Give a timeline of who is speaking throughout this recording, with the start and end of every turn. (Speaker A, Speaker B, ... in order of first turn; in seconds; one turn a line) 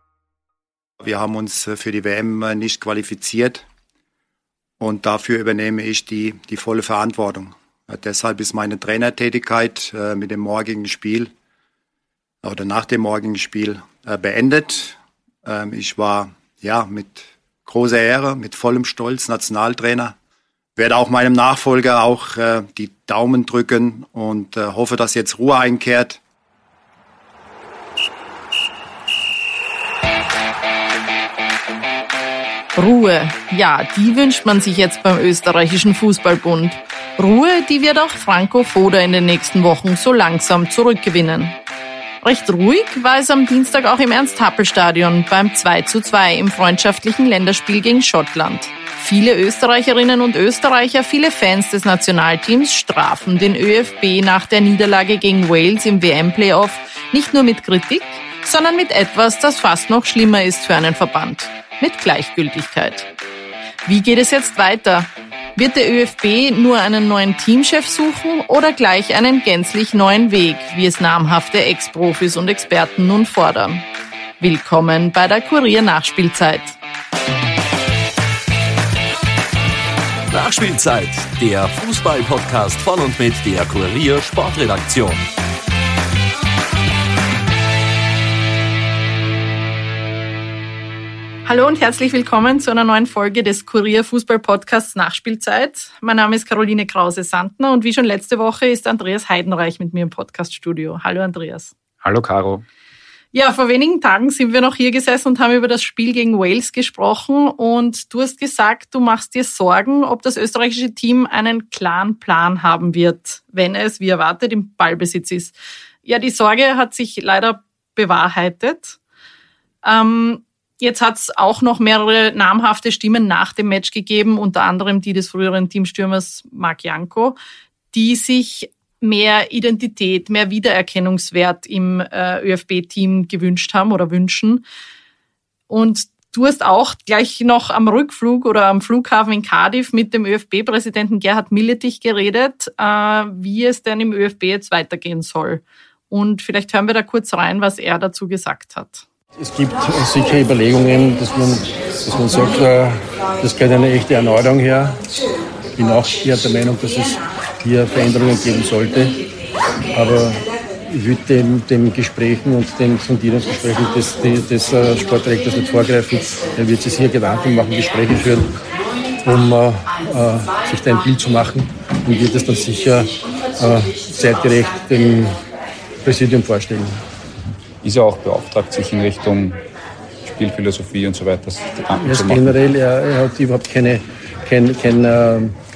Speaker A: 1.0-3.6
Speaker A: 4.8-11.3
Speaker A: 12.4-20.1
Speaker A: 20.8-26.2
Speaker B: 32.8-41.6
Speaker B: 42.2-63.1
Speaker B: 63.8-73.9
Speaker B: 74.4-76.8
Speaker C: 80.3-85.3
Speaker B: 91.5-101.7
Speaker D: 102.0-102.6
Speaker B: 103.3-119.0
Speaker B: 119.8-127.4
Speaker B: 127.9-134.6
Speaker B: 135.7-149.1
Speaker E: 149.4-155.0
Speaker E: 155.8-159.2
Speaker E: 159.9-168.5
Speaker E: 169.2-175.3
Speaker E: 176.0-177.0
Speaker D: 177.8-179.6
Speaker D: 180.2-182.6
Speaker E: 182.0-185.6